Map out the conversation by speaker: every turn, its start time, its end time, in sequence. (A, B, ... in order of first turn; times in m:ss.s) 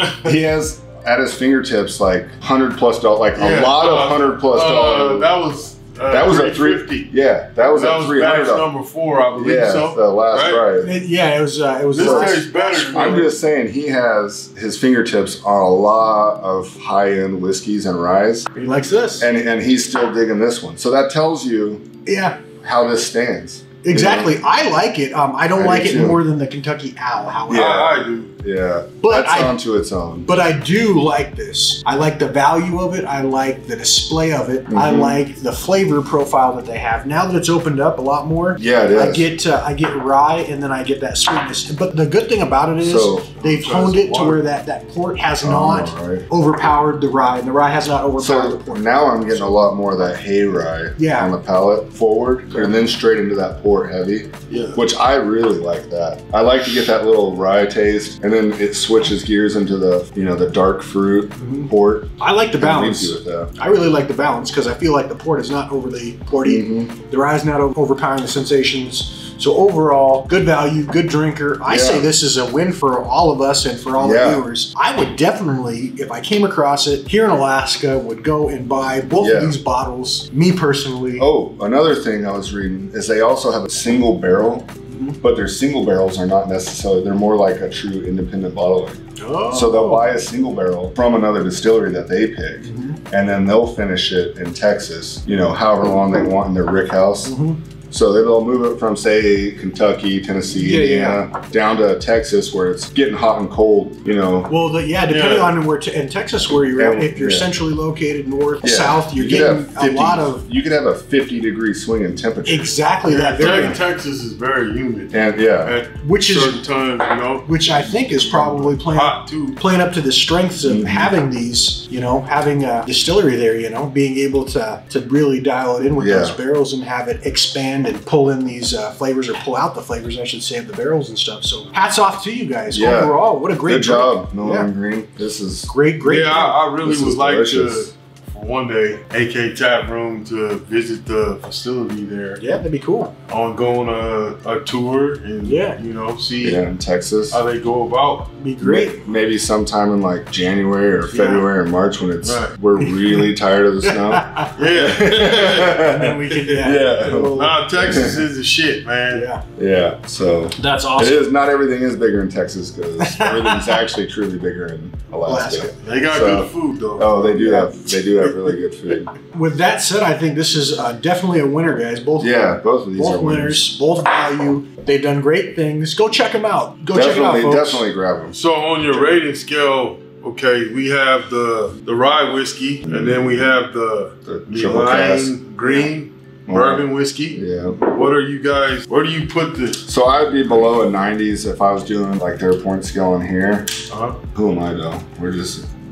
0:00.2-0:05.3 A
0:03.4-0:07.1 B
0:06.1-0:08.7 A
0:07.7-0:10.6 B
0:09.3-0:10.9 A
0:10.8-0:13.3 C
0:11.9-0:13.3 B
0:12.0-0:18.5 A
0:18.5-0:19.3 C
0:19.2-0:21.9 A
0:22.1-0:22.4 C
0:22.6-0:24.4 A
0:23.8-0:28.0 C
0:25.6-0:26.2 A
0:27.5-0:28.3 B
0:27.5-0:30.3 A
0:29.0-0:29.6 C
0:30.2-0:49.4 C
0:34.7-0:35.2 A
0:38.6-0:39.3 A
0:42.8-0:43.3 A
0:43.4-0:44.4 B
0:45.4-0:46.3 A
0:48.2-1:03.5 A
0:51.0-0:51.3 C
0:52.5-0:52.8 C
0:54.5-0:54.8 B
1:01.4-1:21.3 C
1:06.4-1:07.0 A
1:11.7-1:12.1 A
1:14.0-1:14.4 A
1:19.2-1:19.6 A
1:21.2-1:24.7 A
1:24.9-1:25.2 C
1:25.2-1:37.4 A
1:29.2-1:30.1 C
1:32.6-1:33.0 C
1:37.2-1:37.6 C
1:37.9-1:44.5 A
1:40.5-1:41.2 C
1:44.5-1:50.5 C
1:45.1-1:45.6 B
1:46.8-1:47.5 A
1:48.6-1:52.8 A
1:52.4-1:53.8 C
1:53.1-1:59.6 B
1:53.4-1:53.8 A
1:55.1-1:55.8 A
1:56.0-1:56.6 C
1:57.5-2:14.7 C
2:00.7-2:01.1 A
2:06.0-2:06.4 A
2:12.7-2:15.7 A
2:15.7-2:16.6 C
2:16.0-2:22.4 B
2:16.8-2:17.9 A
2:22.4-2:23.1 C
2:23.3-2:26.6 B
2:25.4-2:25.8 C
2:26.4-2:27.4 A
2:27.3-2:28.3 B
2:28.4-2:29.0 C
2:28.6-2:38.3 A
2:31.1-2:31.5 C
2:32.2-2:32.5 B
2:32.8-2:33.3 C
2:33.8-2:34.6 C
2:34.6-2:39.3 B
2:35.5-2:37.8 C
2:39.1-2:39.4 C
2:39.6-2:49.1 A
2:40.6-2:41.2 C
2:43.0-2:43.8 C
2:45.3-2:45.8 C
2:45.8-2:47.4 B
2:47.3-2:47.9 C
2:49.2-2:57.8 C
2:52.2-2:53.7 A
2:56.9-2:58.4 A
2:58.3-3:09.8 B
3:02.9-3:03.4 A
3:04.3-3:05.4 A
3:05.6-3:05.9 C
3:06.5-3:07.8 A
3:09.8-3:13.7 A
3:13.9-3:14.2 B
3:14.3-3:15.7 A